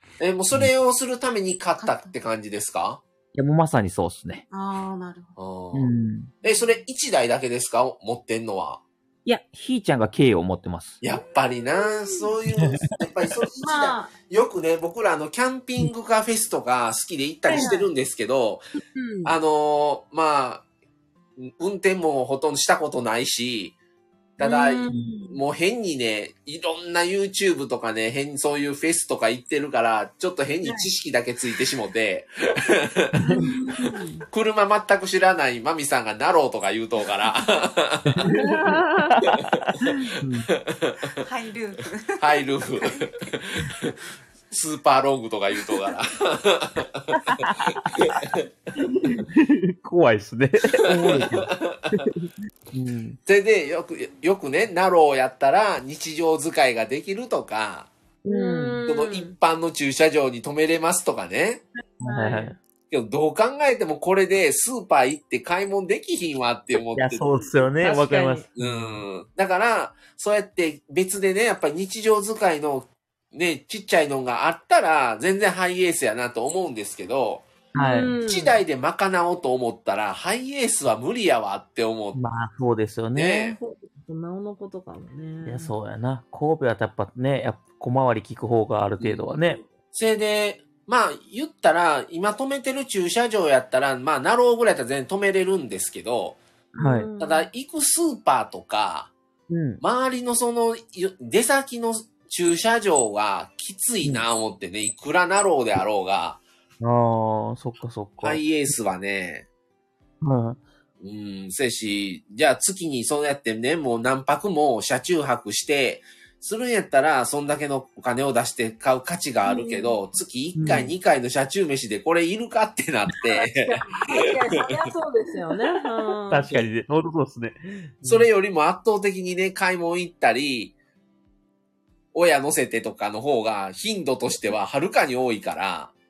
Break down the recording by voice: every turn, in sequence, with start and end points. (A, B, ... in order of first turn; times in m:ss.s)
0:00.2-0:03.0 A
0:01.8-0:02.2 B
0:03.3-0:04.4 C
0:04.5-0:05.4 B
0:05.4-0:05.9 A
0:05.7-0:06.3 C
0:06.4-0:08.8 A
0:06.4-0:06.8 B
0:09.2-0:11.0 C
0:11.0-0:18.7 A
0:12.6-0:12.9 C
0:13.6-0:14.1 B
0:17.5-0:17.7 D
0:17.5-0:17.9 B
0:18.9-0:19.3 D
0:19.2-0:20.6 A
0:21.4-0:23.8 A
0:24.4-0:33.4 A
0:24.4-0:25.4 D
0:33.2-0:34.2 D
0:34.3-0:38.3 A
0:38.2-0:40.5 C
0:38.4-0:39.1 D
0:39.2-0:39.9 A
0:40.5-0:41.2 A
0:41.2-0:43.1 B
0:42.2-0:44.0 A
0:44.5-0:48.5 A
0:47.3-0:48.2 C
0:48.8-0:53.2 C
0:50.8-0:52.0 A
0:53.3-0:57.9 A
0:58.2-0:58.8 C
0:58.3-0:59.4 D
0:58.9-1:01.6 A
1:02.0-1:02.5 C
1:02.0-1:02.6 D
1:02.9-1:07.3 A
1:06.9-1:09.0 C
1:07.8-1:08.5 D
1:08.6-1:17.5 A
1:17.7-1:18.2 C
1:17.8-1:18.6 D
1:18.2-1:22.2 A
1:22.2-1:23.6 C
1:23.2-1:23.6 A
1:23.6-1:25.7 D
1:25.4-1:29.6 C
1:29.0-1:36.4 A
1:36.7-1:37.1 C
1:36.8-1:37.5 D
1:37.2-1:39.1 A
1:39.5-1:39.8 C
1:39.8-1:46.4 A
1:46.8-1:48.4 C
1:48.2-1:49.5 A
1:50.2-1:50.6 C
1:51.0-2:03.7 A
2:00.6-2:00.9 C
2:03.4-2:06.6 D
2:04.3-2:04.9 A
2:06.3-2:08.3 C
2:08.0-2:10.7 A
2:12.1-2:15.9 A